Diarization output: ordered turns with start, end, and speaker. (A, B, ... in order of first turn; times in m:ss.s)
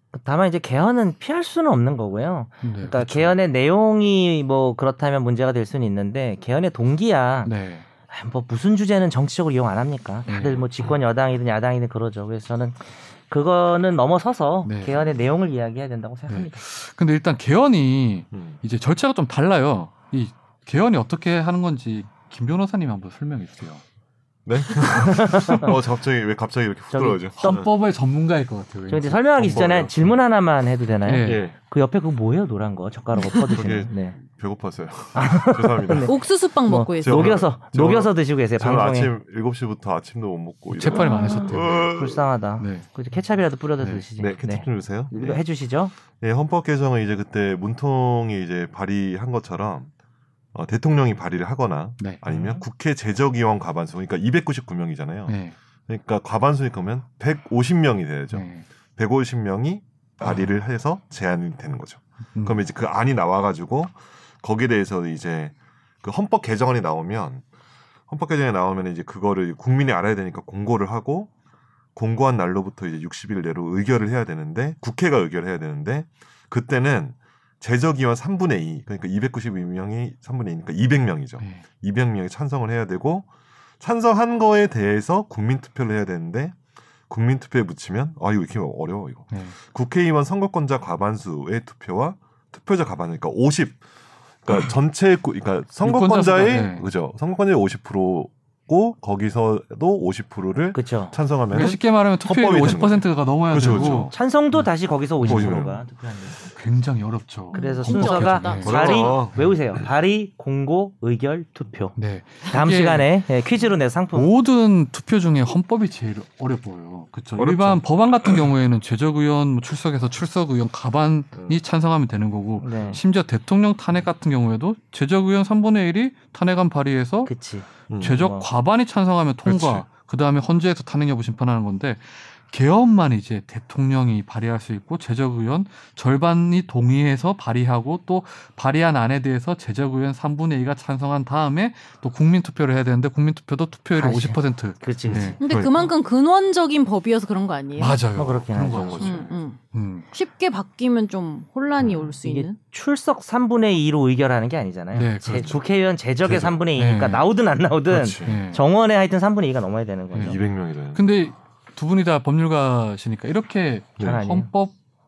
0:00.1-0:07.5 A
0:02.6-0:03.4 B
0:07.4-0:07.8 B
0:08.1-0:16.6 A
0:10.3-0:10.7 B
0:14.6-0:15.1 B
0:16.3-0:23.8 B
0:24.4-0:27.7 C
0:24.9-0:25.8 A
0:26.9-0:27.6 A
0:27.4-0:29.9 B
0:28.9-0:34.2 A
0:29.4-0:29.9 C
0:31.0-0:31.4 B
0:31.2-0:31.6 C
0:33.5-0:36.1 C
0:35.1-0:39.1 A
0:36.0-0:37.4 D
0:37.0-0:42.3 C
0:40.8-0:41.9 B
0:40.9-0:41.6 D
0:41.5-0:45.9 A
0:42.6-0:42.9 B
0:44.2-0:45.4 C
0:46.1-0:49.9 C
0:50.5-0:55.4 C
0:52.3-0:52.6 A
0:55.3-0:55.6 B
0:55.9-1:07.4 C
0:58.3-0:58.6 B
1:00.2-1:00.5 B
1:02.3-1:02.6 B
1:08.1-1:11.3 C
1:12.0-1:23.3 C
1:23.8-1:26.6 C
1:27.1-1:33.8 C
1:29.3-1:29.6 B
1:34.4-1:44.1 C
1:35.8-1:36.9 B
1:40.7-1:41.2 A
1:41.5-1:44.7 B
1:43.7-1:46.5 A
1:45.2-1:45.6 B
1:45.2-1:45.8 C
1:46.5-1:49.0 B
1:47.5-1:49.0 D
1:47.5-1:52.0 A
1:48.6-1:49.8 C
1:52.0-1:53.1 B
1:52.5-1:54.3 A
1:54.1-2:07.3 B
1:57.4-1:58.3 C
2:02.6-2:03.0 A
2:07.3-2:08.5 A
2:07.9-2:08.2 C
2:08.0-2:25.4 B
2:09.4-2:09.8 C
2:24.0-2:25.4 A
2:25.1-2:25.9 C
2:25.4-2:28.0 D
2:27.8-2:29.2 B
2:28.2-2:29.1 A
2:28.6-2:29.3 C
2:29.0-2:29.6 D
2:29.7-2:30.1 B
2:30.1-2:32.6 D
2:31.8-2:32.1 C
2:32.2-2:40.4 A
2:34.9-2:35.6 B
2:36.2-2:36.6 C
2:36.8-2:37.2 B
2:37.9-2:38.4 C
2:38.2-2:38.6 B
2:40.1-2:40.4 B
2:40.2-2:41.1 C
2:40.9-2:44.7 B
2:44.0-2:44.5 A